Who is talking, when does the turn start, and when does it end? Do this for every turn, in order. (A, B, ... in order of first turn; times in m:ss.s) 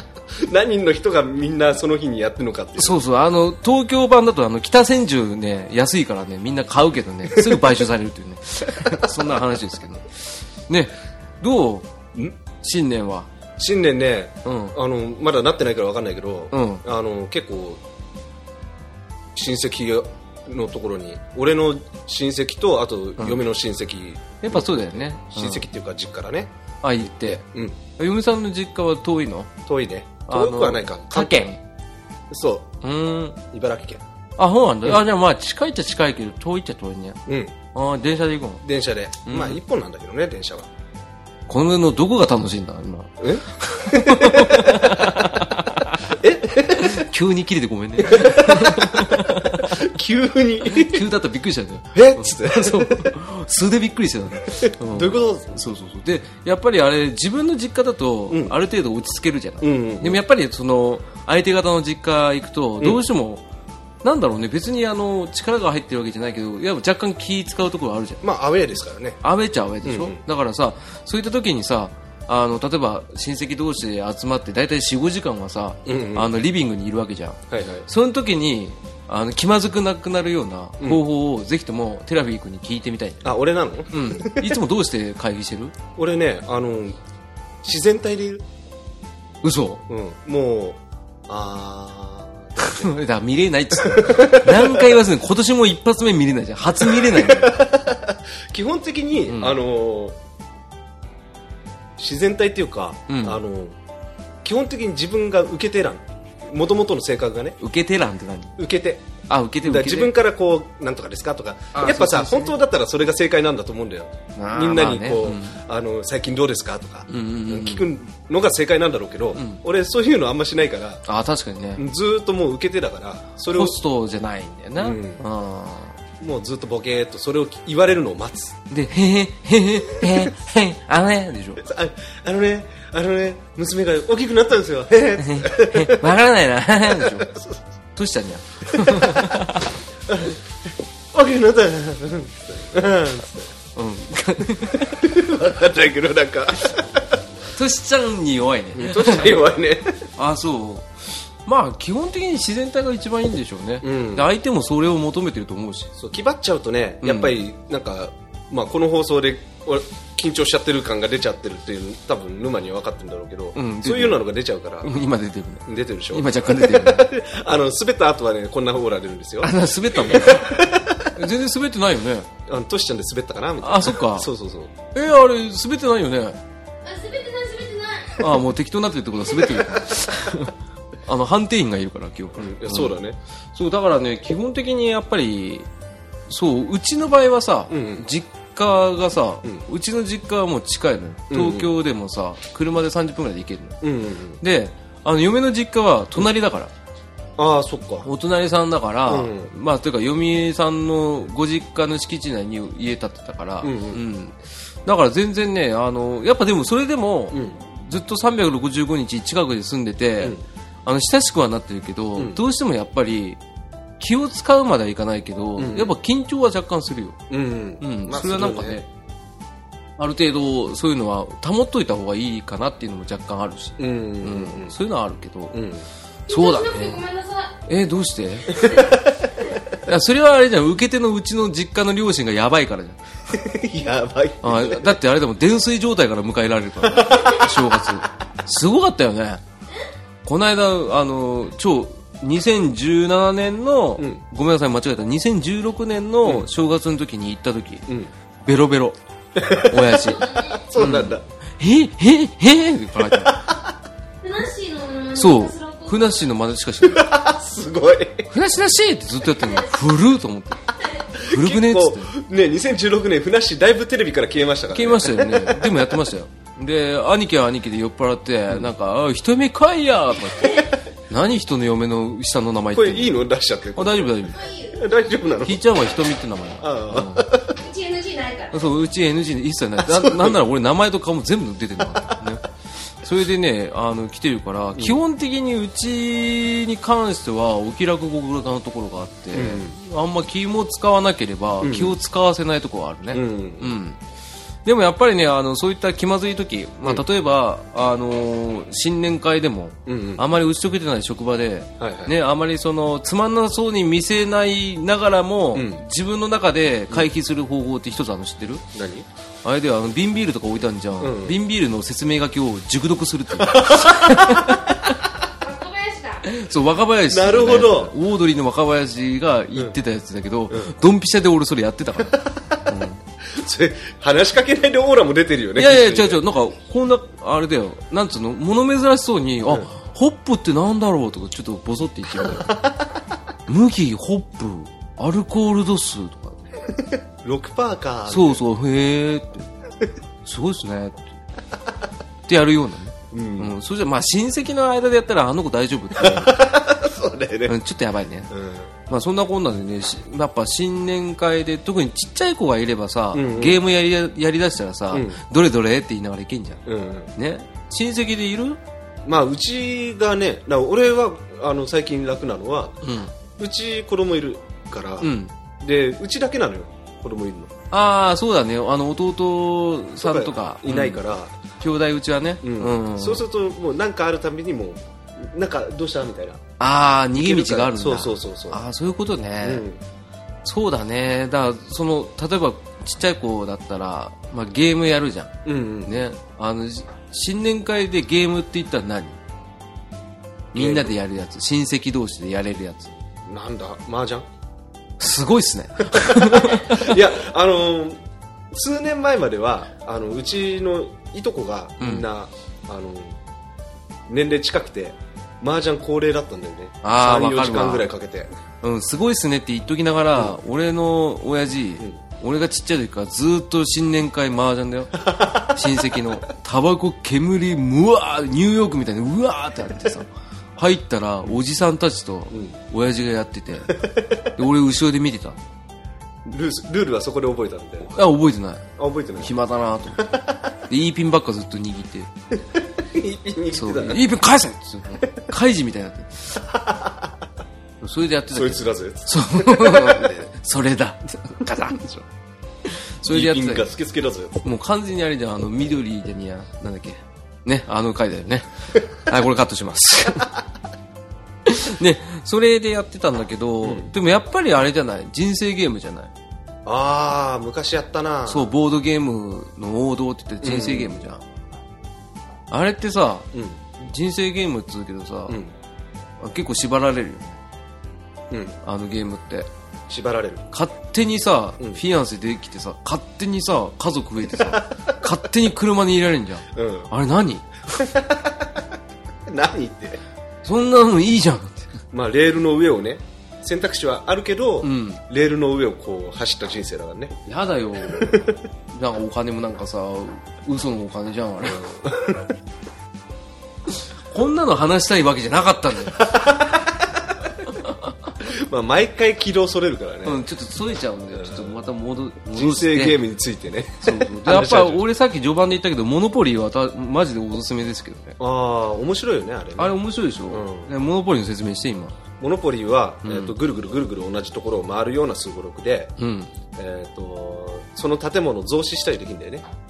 0:00.4-0:03.0 A
0:02.8-0:11.9 B
0:07.3-0:07.8 A
0:08.8-0:09.3 A
0:12.6-0:13.3 B
0:13.6-0:17.8 A
0:14.4-0:14.8 B
0:16.5-0:16.8 B
0:19.3-0:26.5 A
0:24.4-0:25.7 B
0:26.8-0:27.5 B
0:27.3-0:27.8 A
0:28.0-0:29.5 B
0:29.7-0:31.5 A
0:30.3-0:31.6 B
0:32.3-0:32.7 A
0:32.8-0:33.4 B
0:33.5-0:34.0 A
0:34.4-0:38.6 B
0:37.3-0:37.6 A
0:38.6-0:40.7 A
0:39.3-0:39.6 B
0:41.5-0:46.1 B
0:43.2-0:45.4 A
0:46.0-0:47.1 A
0:46.7-0:49.9 B
0:48.0-0:51.0 A
0:50.7-1:03.4 B
0:52.0-0:53.1 A
0:54.6-0:55.5 A
0:58.3-0:58.6 A
0:59.6-1:00.2 A
1:04.0-1:08.2 B
1:08.2-1:09.2 A
1:09.2-1:23.4 B
1:09.8-1:10.2 A
1:15.9-1:16.3 A
1:17.5-1:17.9 A
1:23.2-1:24.6 A
1:23.9-1:25.8 B
1:26.0-1:27.0 A
1:27.6-1:28.5 A
1:29.4-1:29.8 B
1:29.9-1:33.0 A
1:32.6-1:37.6 B
1:33.8-1:35.0 A
1:36.9-1:40.2 A
1:39.3-1:39.6 B
1:42.0-1:43.8 A
1:43.1-1:43.4 B
1:44.4-1:47.6 A
1:47.6-1:48.6 B
1:48.6-1:49.1 A
1:49.3-1:50.1 B
1:49.6-2:01.0 A
1:51.7-1:52.6 B
1:54.4-1:55.6 B
1:57.1-1:57.9 B
1:59.4-1:59.6 B
2:01.1-2:01.8 B
2:01.8-2:03.8 A
2:03.4-2:06.0 B
2:04.8-2:05.2 A
2:06.2-2:08.6 A
2:08.7-2:11.6 B
2:11.6-2:16.2 A
2:15.2-2:17.3 B
2:16.8-2:17.6 A
2:18.0-2:19.7 B
2:18.7-2:19.4 A
2:20.1-2:20.4 A
2:21.1-2:23.5 A
2:23.8-2:25.0 B
2:25.0-2:27.2 A
2:27.5-2:29.4 B
2:28.8-2:30.1 A
2:30.2-2:30.9 B
2:31.4-2:35.9 B
2:33.8-2:34.3 A
2:36.0-2:44.9 A
2:37.0-2:37.4 B
2:43.6-2:44.2 B
2:44.8-2:47.1 B
2:45.7-2:51.1 A
2:49.4-2:52.3 B
2:52.5-2:54.7 A
2:53.6-2:54.3 B
2:54.9-2:56.4 B
2:56.8-2:58.2 C
2:58.2-3:00.6 B
3:01.1-3:03.0 B
3:02.4-3:03.2 A
3:03.5-3:05.7 B
3:06.3-3:13.8 B
3:07.7-3:08.0 A
3:11.3-3:11.7 A
3:13.8-3:14.4 A
3:14.4-3:16.7 B
3:17.4-3:18.1 A
3:18.0-3:33.4 B
3:19.1-3:19.5 A
3:23.6-3:24.0 A
3:27.3-3:27.6 A
3:32.2-3:32.4 A
3:34.0-3:37.2 B
3:35.6-3:35.9 A
3:37.3-3:38.8 A
3:37.8-3:38.8 B
3:40.0-3:45.6 B
3:43.8-3:44.8 A
3:45.5-3:45.9 A
3:46.3-3:47.0 B
3:46.3-3:47.6 C
3:47.6-3:48.8 B
3:48.5-3:49.3 A
3:49.8-3:53.0 B
3:53.3-3:55.0 A
3:54.4-3:59.4 B
3:56.8-3:58.0 A
4:00.2-4:07.9 B
4:08.4-4:09.0 B
4:09.4-4:10.0 A
4:09.5-4:13.4 B
4:10.0-4:10.6 C
4:10.5-4:11.3 A
4:13.1-4:13.6 A
4:14.2-4:16.2 C
4:15.1-4:17.1 B
4:16.8-4:18.3 A
4:18.3-4:20.6 B
4:19.2-4:19.8 C
4:20.7-4:21.1 C
4:21.2-4:26.0 A
4:21.3-4:22.1 B
4:24.7-4:33.2 B
4:32.7-4:34.2 A
4:33.8-4:34.4 B
4:34.3-4:34.8 C
4:34.7-4:35.6 A
4:35.4-4:37.3 B
4:36.6-4:37.6 A
4:37.6-4:38.7 C
4:38.5-4:42.4 B
4:39.8-4:40.4 A
4:43.0-4:54.0 B
4:49.3-4:49.8 A
4:51.6-4:52.0 A
4:53.1-4:53.8 A
4:54.6-5:08.6 B
4:59.9-5:00.2 A
5:01.8-5:02.1 A
5:05.5-5:05.8 A
5:08.7-5:09.1 A
5:09.4-5:15.0 B
5:11.0-5:11.4 A
5:13.4-5:14.7 A
5:15.4-5:16.2 C
5:16.2-5:23.0 B
5:17.1-5:17.9 A
5:22.1-5:22.6 A
5:23.3-5:26.2 A
5:25.6-5:32.5 B
5:32.1-5:33.0 A
5:33.5-5:36.4 B
5:36.8-5:38.4 A
5:38.1-5:39.5 B
5:40.2-5:41.0 B
5:42.3-5:46.6 B
5:43.1-5:43.5 A
5:46.0-5:47.6 A
5:47.5-5:48.3 B
5:48.3-5:48.7 A
5:48.9-5:56.6 B
5:53.1-5:53.6 A
5:54.9-5:55.2 A
5:56.7-5:57.1 A
5:57.2-5:58.6 B
5:59.0-6:02.8 A
6:02.8-6:03.1 B
6:03.4-6:07.5 A
6:05.0-6:05.3 B
6:07.7-6:11.0 B
6:10.0-6:11.4 A
6:11.6-6:13.2 B
6:12.4-6:16.4 A
6:16.6-6:19.6 B
6:17.2-6:18.6 A
6:19.4-6:19.8 A
6:20.4-6:29.2 B
6:25.4-6:26.0 A
6:30.5-6:31.0 A
6:30.5-6:33.0 B
6:33.3-6:34.3 A
6:35.0-6:37.0 B
6:35.9-6:43.2 A
6:41.8-6:42.1 B
6:44.1-6:48.3 A
6:46.8-6:47.9 B
6:48.6-7:05.4 B
6:55.0-6:56.1 A
7:02.3-7:02.6 A
7:03.7-7:04.3 A
7:06.2-7:08.0 A
7:07.9-7:08.7 B
7:08.8-7:09.3 A
7:09.2-7:10.1 B
7:10.0-7:10.5 A
7:10.7-7:12.1 B
7:12.6-7:14.0 A
7:13.5-7:16.4 B
7:16.5-7:17.2 A
7:17.8-7:22.1 B
7:18.3-7:20.2 A
7:22.7-7:23.7 B
7:23.0-7:24.4 A
7:24.4-7:30.3 B
7:31.5-7:36.1 B
7:33.6-7:33.9 A
7:36.7-7:38.5 A
7:38.3-7:41.2 B
7:40.4-7:41.0 A
7:42.5-7:45.4 B
7:43.3-7:43.6 A
7:45.3-7:45.6 A
7:46.2-7:47.4 B
7:48.3-7:48.6 A
7:48.6-7:49.5 B
7:49.9-7:50.5 A
7:50.5-7:57.9 B
7:54.4-7:55.0 A
7:56.6-7:56.9 A
7:57.8-7:58.7 A
7:59.3-8:00.0 A
8:00.4-8:01.8 B
8:01.9-8:07.2 A
8:04.6-8:05.0 B
8:07.3-8:11.7 B
8:07.9-8:08.4 A
8:11.4-8:12.3 A
8:14.1-8:16.1 B
8:16.0-8:17.1 A
8:17.6-8:17.9 B
8:18.2-8:20.2 A
8:20.0-8:23.0 B
8:21.1-8:21.6 A
8:22.3-8:24.8 A
8:23.8-8:28.2 B
8:28.2-8:29.8 A
8:29.6-8:32.0 B
8:30.3-8:30.7 A
8:32.2-8:35.9 A
8:33.0-8:33.4 B
8:36.0-8:36.3 B
8:36.5-8:39.4 A